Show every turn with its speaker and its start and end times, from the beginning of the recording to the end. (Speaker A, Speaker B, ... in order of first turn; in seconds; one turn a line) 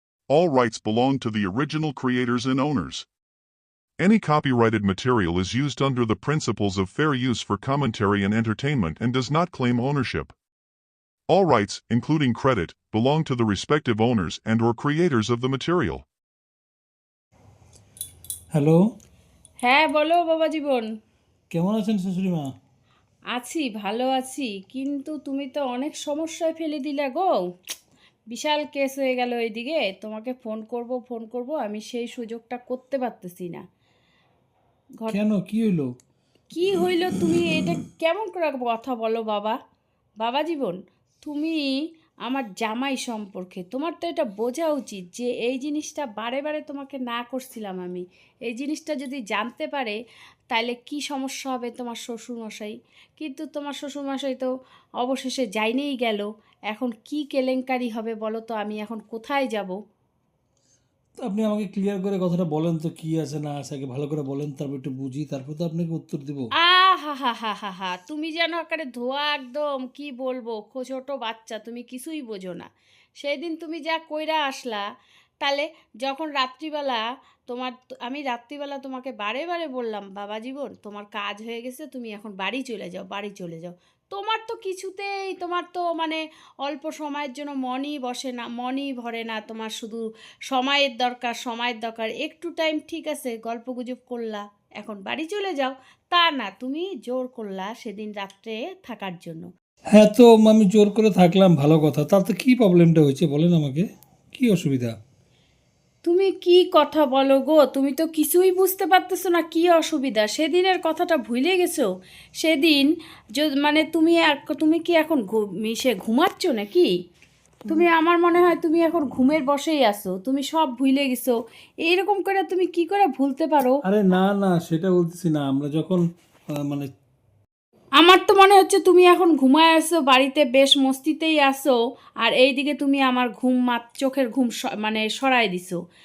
Speaker A: 0.3-3.0
Speaker A: 4.0-10.3
Speaker A: 11.3-16.0
Speaker B: 18.5-18.8
Speaker C: 19.6-20.9
Speaker B: 21.5-22.5
Speaker C: 23.3-27.4
Speaker C: 28.3-33.6
Speaker B: 35.1-35.9
Speaker C: 36.5-39.6
Speaker C: 40.2-50.0
Speaker C: 50.5-59.8
Speaker B: 61.2-66.5
Speaker C: 66.6-72.7
Speaker C: 73.2-74.8
Speaker C: 75.4-99.5
Speaker B: 99.9-104.9
Speaker C: 106.0-116.9
Speaker C: 117.7-123.8
Speaker B: 123.8-126.0
Speaker B: 126.5-126.9
Speaker C: 128.0-135.8